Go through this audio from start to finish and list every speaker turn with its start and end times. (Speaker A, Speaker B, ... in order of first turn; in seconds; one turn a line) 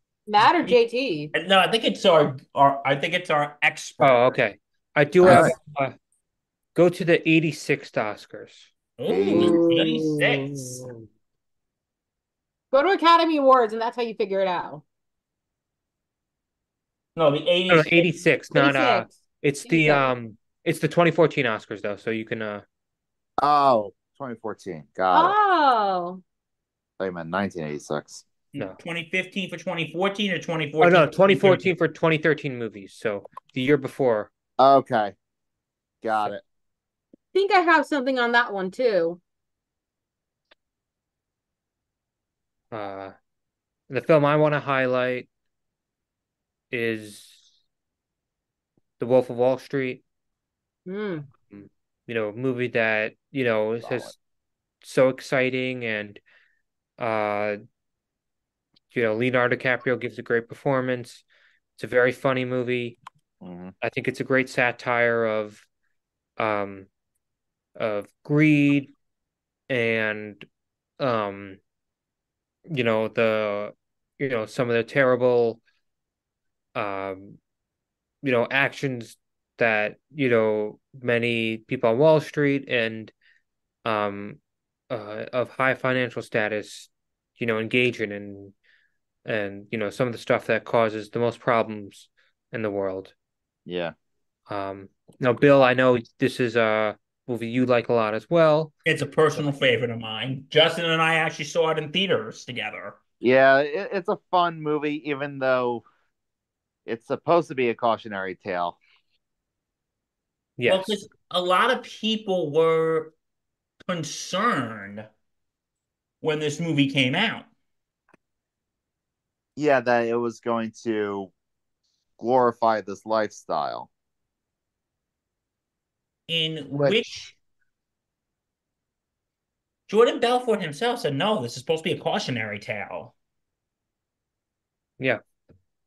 Speaker A: 0.3-1.3
Speaker B: 1.3-4.4
Speaker C: 4.0-6.0
Speaker D: 5.2-5.5
Speaker C: 6.8-8.7
Speaker B: 9.0-10.9
Speaker D: 9.1-9.6
Speaker A: 9.3-10.9
Speaker A: 12.7-14.8
Speaker B: 17.2-18.1
Speaker C: 17.7-22.6
Speaker A: 18.5-19.1
Speaker A: 19.7-20.1
Speaker D: 23.4-25.4
Speaker A: 25.1-26.2
Speaker D: 27.0-28.2
Speaker B: 28.5-31.7
Speaker C: 30.8-34.3
Speaker D: 34.6-35.2
Speaker D: 36.0-36.4
Speaker A: 37.3-39.2
Speaker C: 42.7-43.1
Speaker C: 43.9-45.3
Speaker C: 46.7-47.4
Speaker C: 49.0-50.0
Speaker A: 50.9-51.3
Speaker C: 51.5-54.2
Speaker D: 53.8-54.1
Speaker C: 54.8-56.2
Speaker C: 57.0-57.6
Speaker C: 58.9-61.2
Speaker C: 61.8-63.0
Speaker D: 63.4-63.8
Speaker C: 63.8-65.7
Speaker C: 66.4-66.9
Speaker C: 67.8-68.9
Speaker C: 69.7-70.5
Speaker C: 71.0-71.6
Speaker C: 72.7-75.6
Speaker C: 76.8-77.4
Speaker C: 78.2-83.1
Speaker C: 83.8-84.4
Speaker C: 84.9-88.5
Speaker C: 89.2-93.1
Speaker D: 93.7-93.9
Speaker C: 94.5-98.7
Speaker B: 98.9-103.0
Speaker D: 103.2-105.8
Speaker D: 106.9-108.8
Speaker C: 110.6-111.0
Speaker B: 110.7-113.2
Speaker B: 113.8-115.1
Speaker B: 116.2-117.5
Speaker D: 119.6-121.3
Speaker D: 122.2-123.9
Speaker B: 126.3-127.3
Speaker B: 129.9-133.2